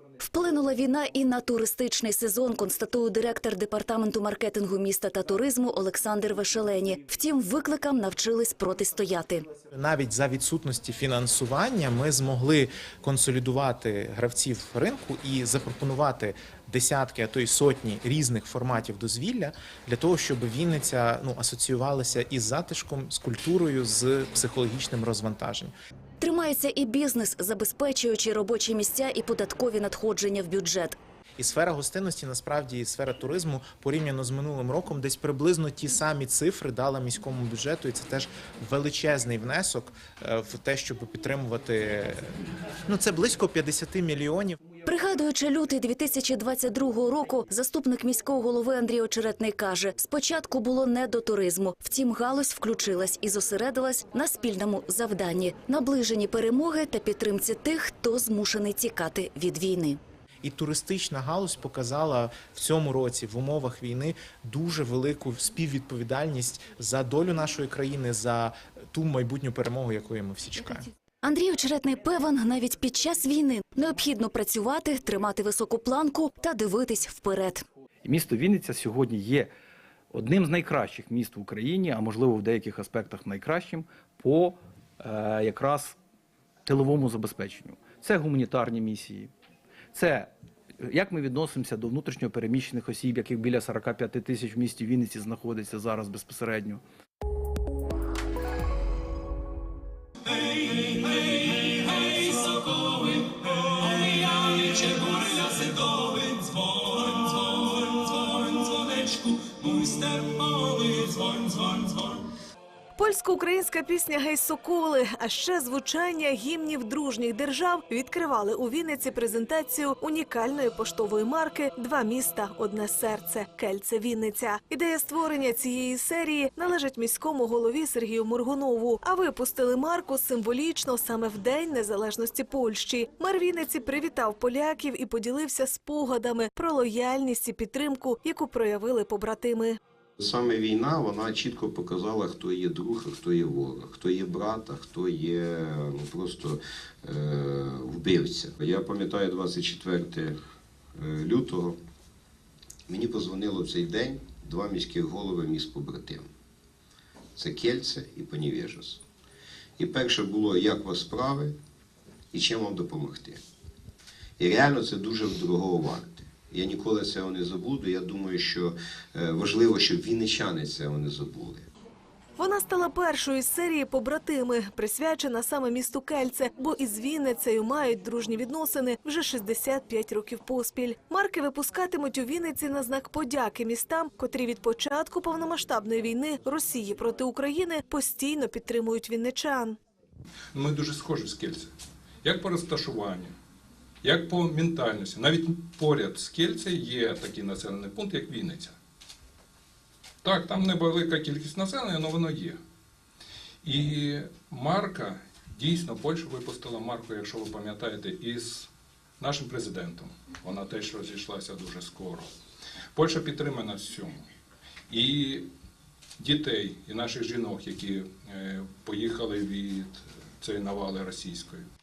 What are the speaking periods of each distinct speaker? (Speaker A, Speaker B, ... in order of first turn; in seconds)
Speaker A: 0.2-9.5, 26.2-31.0, 44.9-60.0, 71.2-77.7
Speaker B: 9.7-25.7, 31.4-44.6, 60.4-70.9
Speaker C: 78.0-79.5, 80.1-86.0, 86.7-89.3, 89.9-96.8
Speaker D: 113.0-139.8, 172.4-189.8
Speaker E: 140.2-150.4, 151.0-151.8, 152.9-156.3, 157.4-159.0, 159.8-161.6, 162.3-163.4, 164.4-171.7
Speaker F: 190.6-191.7, 192.2-193.3, 194.0-198.8, 200.2-202.6, 203.6-208.7, 209.2-212.3, 213.0-214.2, 214.9-215.5, 216.2-221.6